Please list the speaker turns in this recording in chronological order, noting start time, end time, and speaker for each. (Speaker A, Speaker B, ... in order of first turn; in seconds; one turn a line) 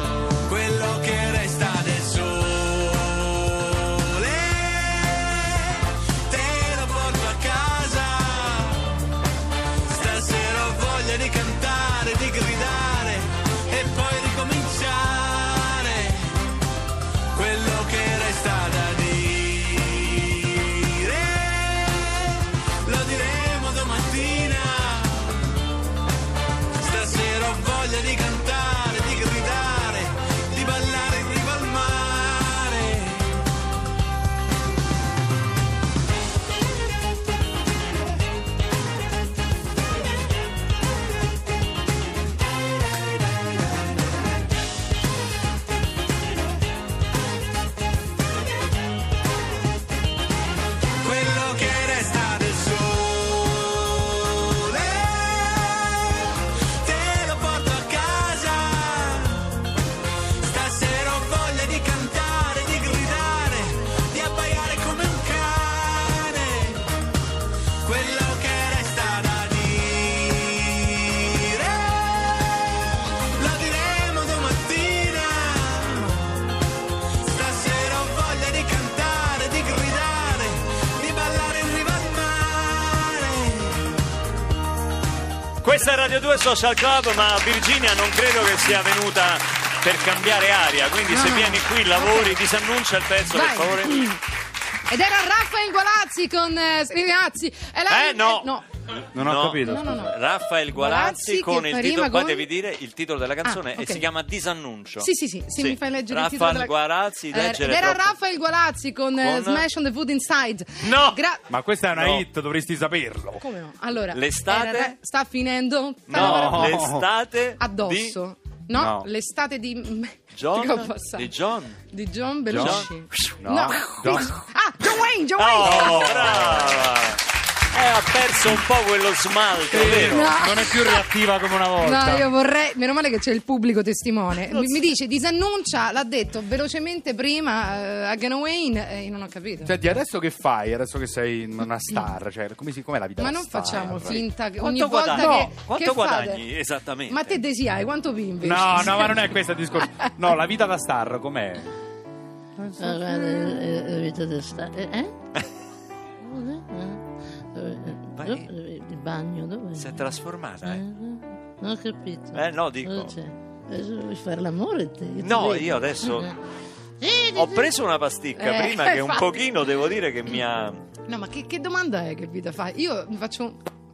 Speaker A: 0.5-9.0
Speaker A: 9.9-16.5
Speaker A: 17.3-25.4
Speaker A: 26.8-33.4
Speaker A: 51.0-59.6
Speaker A: 60.4-67.0
Speaker A: 67.8-76.4
Speaker A: 77.2-84.0
Speaker B: 85.6-94.1
Speaker C: 91.1-92.4
Speaker C: 93.3-94.2
Speaker C: 94.9-98.7
Speaker B: 97.9-98.5
Speaker D: 99.1-100.1
Speaker B: 99.1-108.1
Speaker C: 99.6-100.1
Speaker C: 100.7-102.5
Speaker C: 103.4-104.0
Speaker C: 105.0-111.5
Speaker B: 109.2-109.7
Speaker B: 110.8-111.2
Speaker D: 111.5-113.4
Speaker B: 111.9-112.3
Speaker C: 113.4-117.0
Speaker B: 114.1-115.0
Speaker B: 116.1-118.2
Speaker D: 116.1-117.1
Speaker C: 117.6-126.6
Speaker D: 118.7-119.1
Speaker B: 120.3-121.8
Speaker D: 122.5-124.4
Speaker B: 122.5-123.4
Speaker B: 125.4-127.2
Speaker D: 125.6-126.8
Speaker B: 127.7-130.4
Speaker D: 129.7-132.3
Speaker C: 129.7-131.1
Speaker C: 131.8-140.0
Speaker D: 139.7-144.2
Speaker C: 141.8-142.1
Speaker C: 143.2-146.5
Speaker B: 143.7-147.4
Speaker D: 145.1-145.5
Speaker C: 147.1-150.1
Speaker D: 148.4-151.7
Speaker C: 152.6-153.7
Speaker E: 152.8-155.1
Speaker E: 156.2-157.0
Speaker E: 157.5-160.1
Speaker B: 158.1-158.5
Speaker B: 159.7-160.9
Speaker E: 160.7-166.3
Speaker B: 162.3-163.2
Speaker B: 165.2-166.3
Speaker E: 167.0-167.7
Speaker B: 167.3-170.8
Speaker C: 168.3-169.4
Speaker C: 171.1-173.6